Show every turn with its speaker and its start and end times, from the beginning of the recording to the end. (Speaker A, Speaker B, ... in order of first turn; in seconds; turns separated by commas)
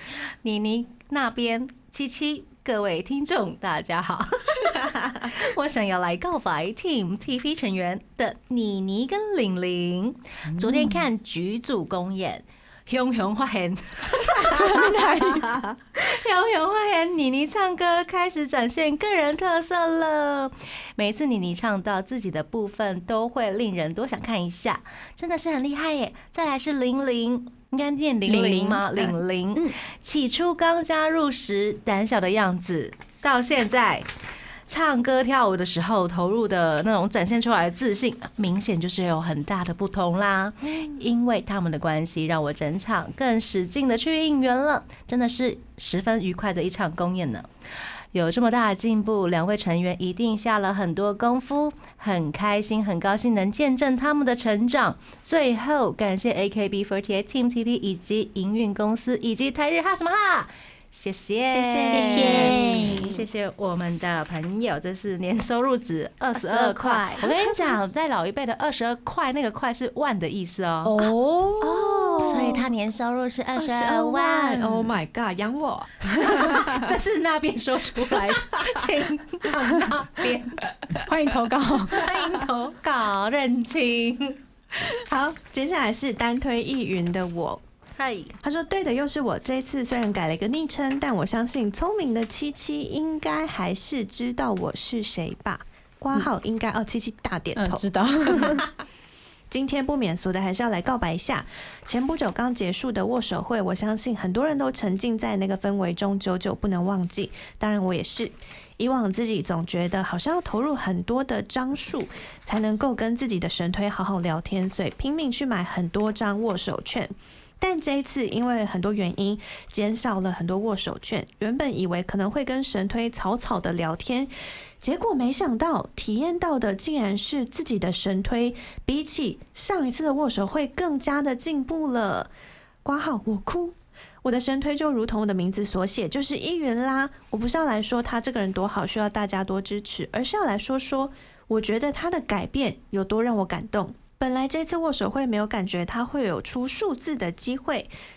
Speaker A: 0.4-14.7, Speaker B: 14.4-15.5, Speaker C: 15.2-15.8, Speaker A: 15.9-34.1, Speaker B: 28.3-29.8, Speaker A: 34.7-47.5, Speaker A: 48.1-71.0, Speaker C: 61.5-63.2, Speaker B: 61.9-63.1, Speaker B: 66.3-67.3, Speaker B: 70.8-72.6, Speaker C: 71.6-72.7, Speaker A: 72.2-74.9, Speaker C: 73.5-76.9, Speaker A: 76.2-80.6, Speaker C: 78.1-78.7, Speaker B: 81.0-82.1, Speaker A: 81.9-84.4, Speaker C: 84.7-87.6, Speaker A: 88.0-88.3, Speaker C: 88.4-98.7, Speaker B: 97.5-98.7, Speaker C: 99.5-132.3, Speaker C: 132.8-147.9